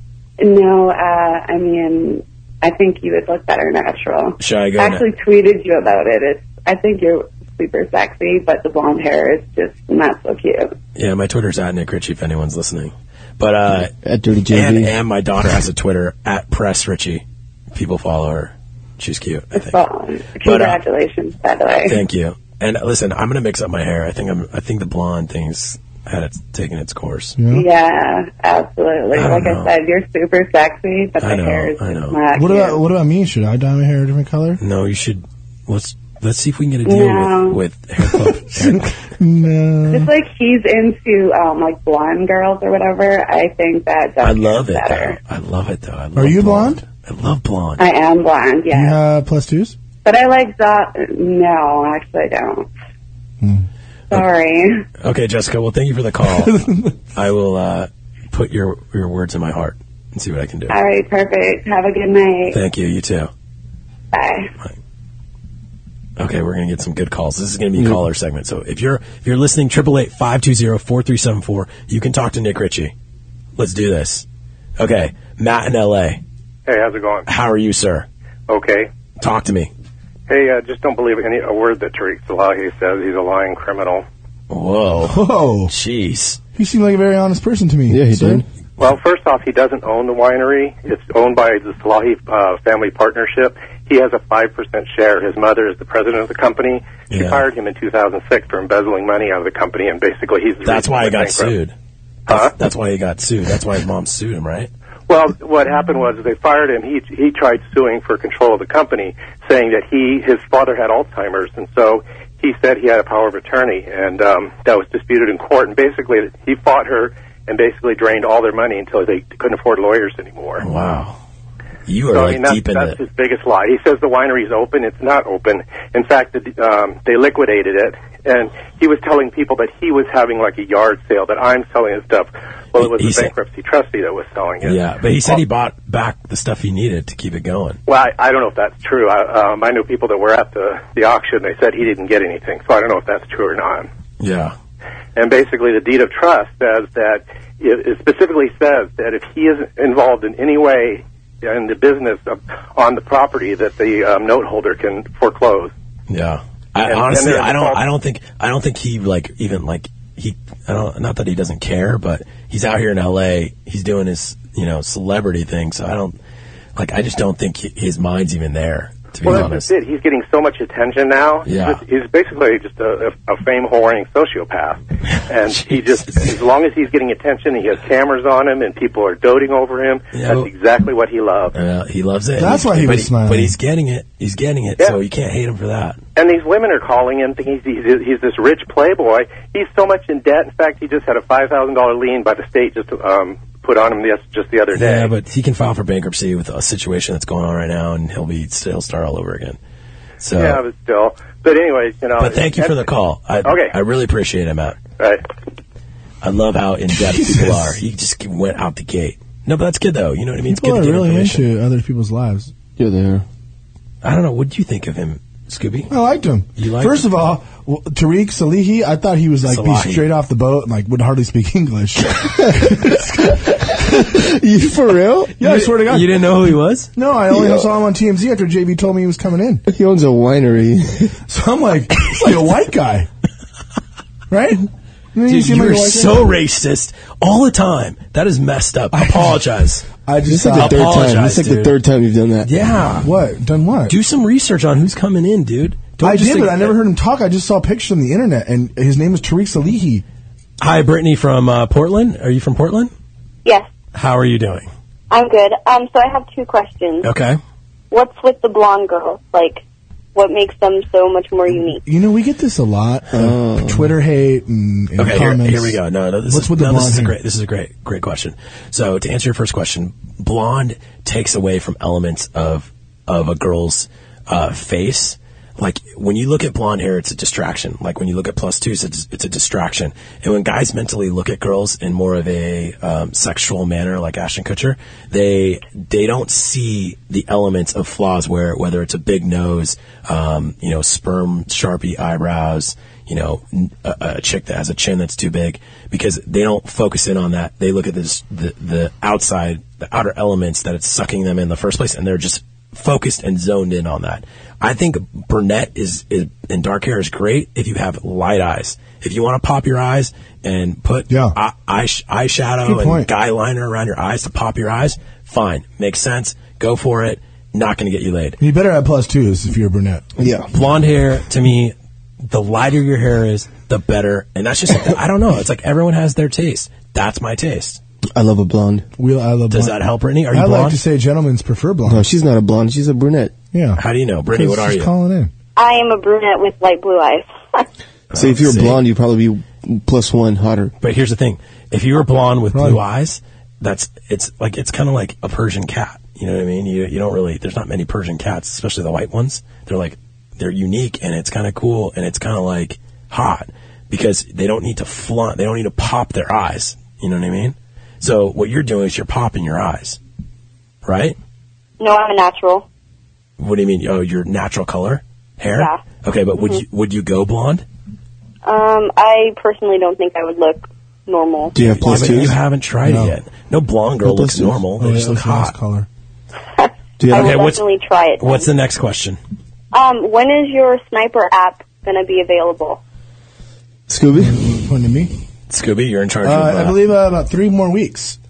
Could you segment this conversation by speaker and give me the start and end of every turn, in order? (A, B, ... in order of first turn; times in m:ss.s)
0:00.4-0:10.8 A
0:04.4-0:05.0 B
0:11.0-0:13.9 B
0:14.0-0:15.0 C
0:14.5-0:19.8 B
0:19.6-0:22.0 A
0:20.4-0:20.8 B
0:21.8-0:27.4 B
0:27.4-0:27.6 D
0:27.5-0:32.8 A
0:29.1-0:29.7 B
0:31.2-0:32.2 B
0:32.3-0:34.6 D
0:34.6-0:39.0 B
0:36.8-0:37.6 A
0:38.0-0:40.1 D
0:39.9-0:45.2 A
0:44.2-0:47.8 B
0:46.2-0:46.8 D
0:47.8-0:49.0 A
0:48.7-0:49.8 D
0:50.0-0:52.7 A
0:53.4-0:53.7 D
0:54.1-0:54.8 A
0:55.0-0:56.5 B
0:56.3-0:57.0 D
0:57.2-1:00.7 B
1:00.7-1:02.6 A
1:02.5-1:03.3 B
1:04.1-1:04.5 A
1:06.2-1:12.9 B
1:13.6-1:14.3 B
1:14.8-1:16.2 B
1:16.7-1:17.3 E
1:17.3-1:18.1 B
1:18.5-1:18.9 E
1:19.2-1:19.7 B
1:20.3-1:24.1 E
1:24.5-1:26.4 B
1:25.1-1:25.7 D
1:26.6-1:28.4 D
1:27.9-1:28.4 C
1:28.8-1:41.5 E
1:37.1-1:37.5 B
1:40.6-1:41.7 B
1:42.3-1:44.7 B
1:42.3-1:42.5 E
1:45.1-2:00.6 E
2:00.6-2:01.2 B
2:01.9-2:03.0 B
2:02.1-2:15.4 E
2:12.8-2:13.4 B
2:14.6-2:17.8 B
2:17.9-2:23.9 E
2:24.2-2:24.6 B
2:25.2-2:35.7 E
2:36.1-2:46.2 B
2:36.8-2:37.8 E
2:46.8-2:49.7 B
2:49.2-3:01.6 E
2:51.4-2:51.8 B
2:55.5-2:56.4 B
3:00.1-3:00.5 B
3:01.6-3:06.0 B
3:02.4-3:03.5 D
3:06.2-3:15.1 E
3:14.7-3:19.6 B
3:20.2-3:20.6 B
3:20.3-3:22.9 E
3:22.2-3:24.8 B
3:23.4-3:23.8 E
3:26.2-3:31.4 B
3:26.9-3:27.8 D
3:30.5-3:32.5 D
3:32.8-3:33.2 C
3:34.0-3:35.9 B
3:35.9-3:44.1 D
3:36.6-3:37.1 B
3:39.5-3:40.1 B
3:44.1-3:45.4 C
3:45.4-3:46.1 D
3:45.4-3:46.9 B
3:47.0-3:49.6 D
3:47.3-3:47.7 C
3:49.7-3:51.2 C
3:51.3-3:53.1 D
3:54.3-3:56.3 D
3:55.3-3:59.9 B
3:58.9-3:59.4 D
3:59.9-4:01.1 D
4:00.3-4:02.5 C
4:00.6-4:01.8 B
4:02.4-4:03.1 B
4:03.0-4:04.0 D
4:03.9-4:06.8 B
4:06.0-4:10.0 D
4:10.6-4:12.9 B
4:13.9-4:14.7 B
4:15.1-4:17.1 F
4:17.0-4:17.4 B
4:17.9-4:19.6 F
4:20.2-4:21.8 F
4:21.8-4:25.8 D
4:23.1-4:23.9 C
4:25.0-5:18.4 B
4:26.3-4:27.2 D
5:11.1-5:11.4 D
5:12.6-5:13.1 D
5:18.4-5:20.0 D
5:20.2-5:20.5 C
5:20.5-5:27.8 B
5:28.1-5:28.9 C
5:29.0-5:29.8 D
5:29.5-5:30.8 B
5:30.3-5:32.0 D
5:31.9-5:33.4 C
5:33.5-5:35.3 D
5:33.8-5:34.9 B
5:35.6-5:37.6 F
5:38.1-5:38.8 B
5:38.1-5:40.7 C
5:40.8-6:00.0 B
5:42.5-5:42.8 D
6:00.8-6:01.2 B
6:01.8-6:02.7 F
6:03.4-6:07.6 B
6:05.5-6:05.8 F
6:08.4-6:11.6 F
6:11.5-6:12.4 C
6:11.6-6:15.6 B
6:12.8-6:13.2 D
6:14.0-6:14.6 C
6:14.8-6:15.9 D
6:17.0-6:17.5 C
6:17.1-6:18.5 F
6:17.1-6:19.2 B
6:19.7-6:22.8 F
6:23.9-6:24.5 C
6:24.2-6:25.1 D
6:25.5-6:26.8 B
6:26.2-6:28.2 D